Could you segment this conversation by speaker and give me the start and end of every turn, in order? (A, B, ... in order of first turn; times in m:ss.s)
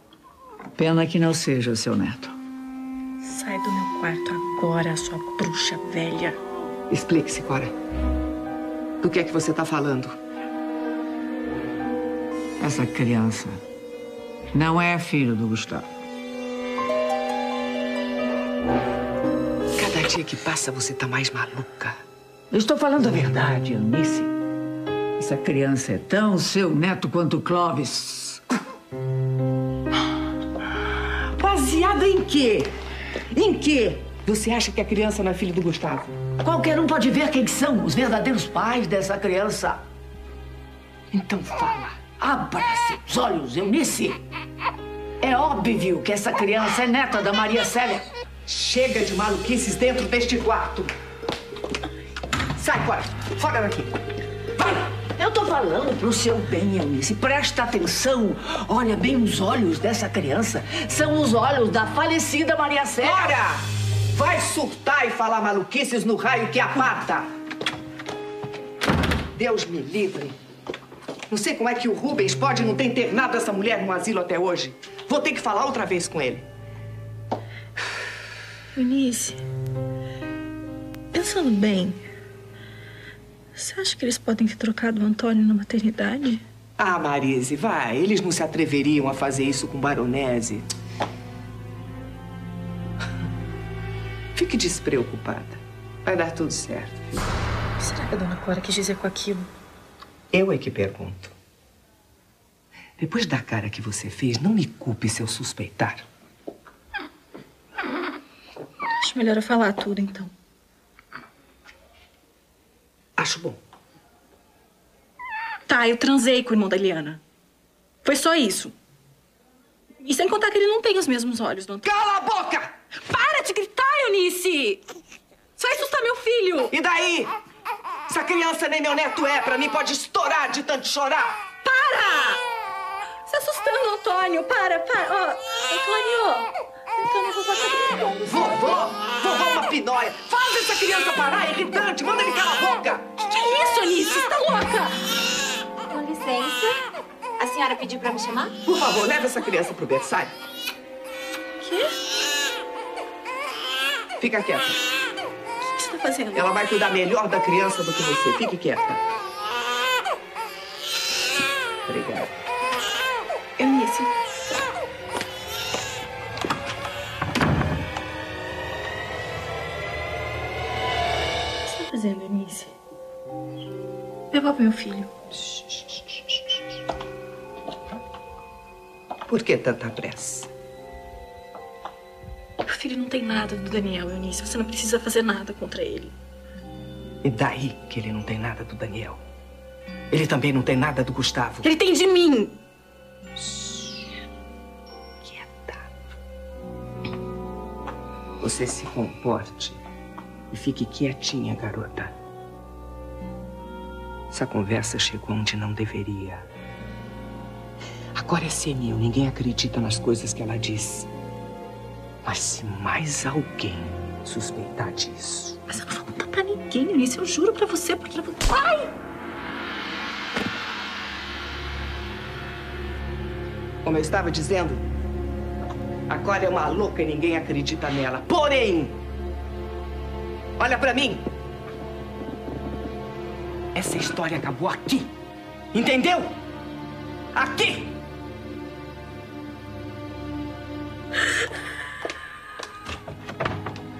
0:00.8-0:02.3 A
0:03.2-0:06.4 B
0:06.9-0:07.7 C
0:09.0-0:10.2 C
0:12.6-0:13.6 A
0:14.5-0:15.9 A
0:19.8-0:22.0 C
0:22.5-0:24.3 A
0:25.2-0:28.4 A
0:31.4-0:32.7 A
0:33.3-0:34.0 A
0:34.1-0:36.2 C
0:36.4-0:39.8 A
0:41.1-0:42.1 C
0:42.2-0:44.2 A
0:45.2-0:48.1 A
0:48.4-0:50.9 C
0:52.6-0:53.9 C
0:55.1-1:03.3 A
1:03.0-1:07.3 C
1:09.3-1:10.4 C
1:11.3-1:16.5 C
1:18.7-1:19.4 B
1:21.1-1:22.0 B
1:23.5-1:26.4 B
1:26.8-1:30.7 C
1:34.3-1:37.3 C
1:37.8-1:39.5 B
1:40.3-1:41.3 C
1:43.0-1:46.0 C
1:49.0-1:50.3 B
1:53.2-1:53.6 C
1:55.6-1:57.2 B
1:58.0-1:58.7 B
2:00.0-2:01.9 B
2:01.8-2:02.7 C
2:03.0-2:04.8 B
2:05.6-2:06.7 B
2:06.7-2:07.3 C
2:08.1-2:11.4 C
2:11.6-2:12.4 B
2:13.2-2:18.8 B
2:18.2-2:23.0 C
2:23.2-2:25.1 B
2:25.9-2:26.8 D
2:27.4-2:28.5 D
2:28.6-2:30.3 C
2:31.6-2:32.0 B
2:34.2-2:34.8 C
2:35.6-2:36.5 B
2:36.3-2:39.0 C
2:41.8-2:42.3 C
2:43.6-2:44.1 B
2:51.6-2:52.7 B
2:54.3-2:55.1 B
2:59.3-3:00.5 C
3:02.6-3:06.1 B
3:07.2-3:09.2 C
3:10.1-3:11.7 C
3:11.6-3:12.6 B
3:15.2-3:15.9 C
3:18.4-3:19.8 C
3:20.5-3:22.1 C
3:24.3-3:26.5 C
3:28.1-3:31.1 C
3:32.2-3:35.6 C
3:35.7-3:38.9 B
3:43.8-3:44.8 C
3:46.1-3:49.0 C
3:50.6-3:51.2 C
3:53.7-3:55.1 C
3:55.7-3:56.4 C
3:57.3-3:58.0 C